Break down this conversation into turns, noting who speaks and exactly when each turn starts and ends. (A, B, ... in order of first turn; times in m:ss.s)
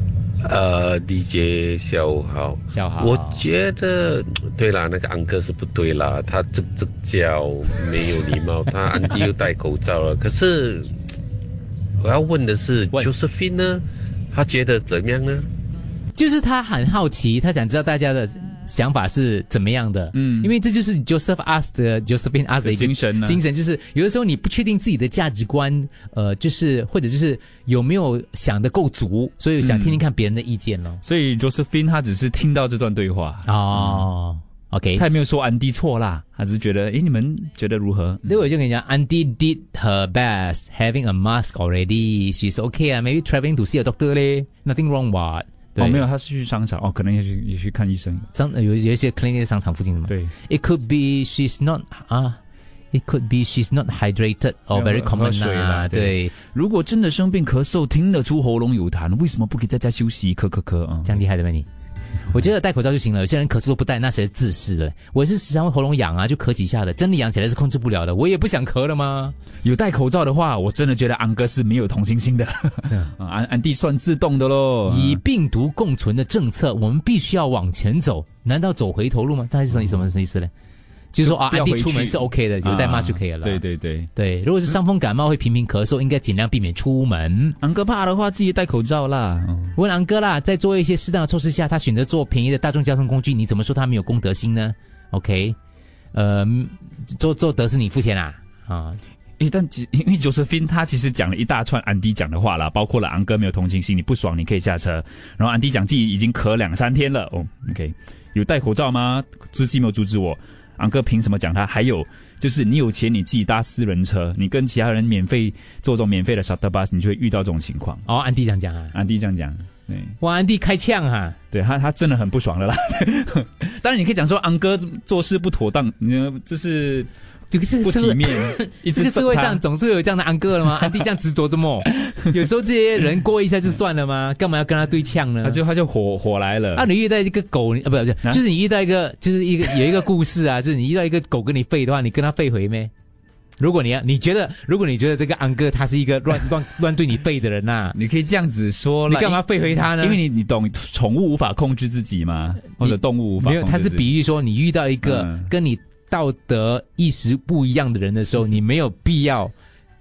0:00.4-0:11.0 A
0:02.7-0:03.4 B
0:12.0-0:15.5 A
0:16.2-0:31.0 B
0:20.1-0:20.5 C
0:22.6-0:23.4 C
0:29.6-0:30.0 C
0:31.0-0:34.0 C
0:33.5-0:35.0 B
0:35.0-0:38.3 C
0:38.2-0:46.0 B
0:45.8-0:48.3 C
0:48.3-0:52.4 B
0:50.1-0:50.3 C
0:52.9-0:56.3 B
0:54.7-1:01.2 C
1:01.0-1:01.7 B
1:02.3-1:09.4 B
1:09.6-1:15.2 C
1:14.9-1:20.5 B
1:21.1-1:23.6 B
1:21.2-1:24.1 C
1:24.2-1:27.6 B
1:27.6-1:29.8 C
1:29.8-1:35.6 B
1:36.1-1:39.0 B
1:39.4-1:58.0 C
1:58.1-1:58.9 B
1:58.9-2:00.2 C
2:00.2-2:01.4 B
2:01.5-2:07.1 C
2:07.5-2:15.6 B
2:07.8-2:09.6 C
2:15.4-2:16.9 C
2:16.8-2:22.9 B
2:23.6-2:28.0 B
2:28.0-2:34.0 C
2:29.1-2:30.2 B
2:32.8-2:39.5 B
2:35.0-2:35.5 C